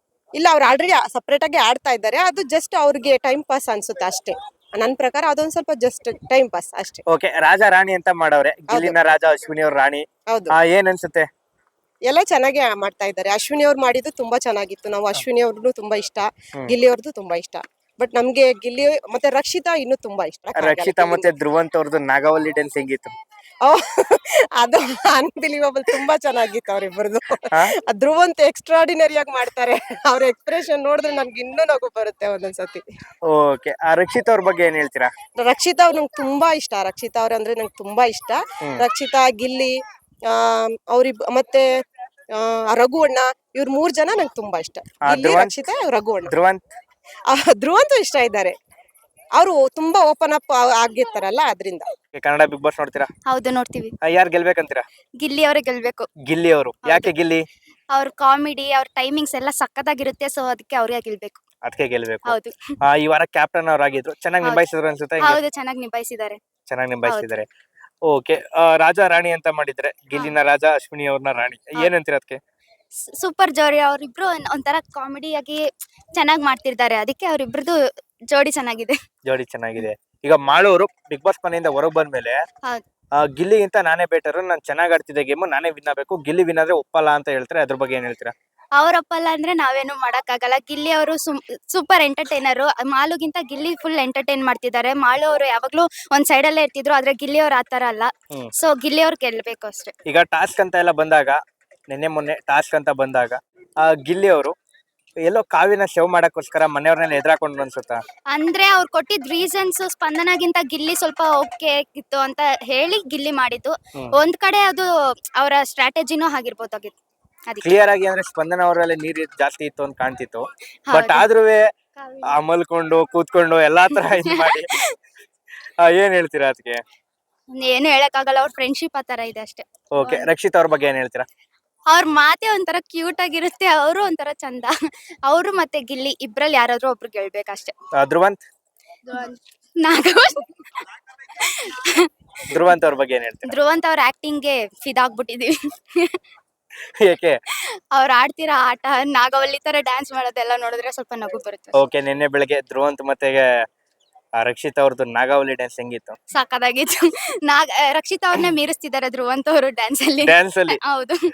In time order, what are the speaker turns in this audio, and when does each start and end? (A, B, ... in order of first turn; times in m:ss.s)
0:00.4-0:07.0 A
0:07.1-0:11.3 B
0:08.7-0:09.0 A
0:12.1-0:21.3 A
0:20.6-0:23.1 B
0:23.6-0:32.8 A
0:33.3-0:35.1 B
0:35.4-0:39.8 A
0:40.3-0:41.7 A
0:42.4-0:46.3 A
0:45.0-0:45.7 B
0:46.3-0:46.6 B
0:47.3-0:48.6 A
0:49.4-0:51.9 A
0:52.1-0:53.1 B
0:53.3-0:53.9 C
0:54.0-0:54.8 B
0:55.2-0:56.1 C
0:56.3-0:57.4 B
0:56.8-0:57.1 C
0:57.9-1:01.4 C
1:01.6-1:05.4 B
1:02.3-1:02.5 C
1:05.2-1:06.4 C
1:06.7-1:07.5 B
1:07.0-1:07.4 C
1:08.1-1:12.4 B
1:13.2-1:15.6 C
1:16.1-1:17.8 C
1:18.3-1:19.0 C
1:19.3-1:22.4 B
1:23.2-1:28.3 B
1:28.8-1:39.9 C
1:40.1-1:41.4 B
1:41.9-1:44.5 B
1:45.3-1:48.0 B
1:48.3-1:54.9 C
1:55.4-1:57.0 C
1:57.5-1:57.8 C
1:57.6-2:01.7 B
2:00.9-2:01.3 C
2:02.0-2:02.4 C
2:02.3-2:04.7 B
2:03.9-2:04.9 C
2:05.8-2:06.8 B
2:07.6-2:10.3 C
2:10.0-2:11.3 B
2:11.9-2:14.7 C
2:15.3-2:17.7 C
2:18.0-2:18.4 B
2:19.1-2:22.1 C
2:22.5-2:23.6 B
2:23.5-2:26.2 C
2:27.0-2:27.4 B
2:28.0-2:31.8 C
2:31.8-2:33.5 B
2:34.4-2:36.2 B
2:36.3-2:41.2 C
2:40.2-2:40.8 B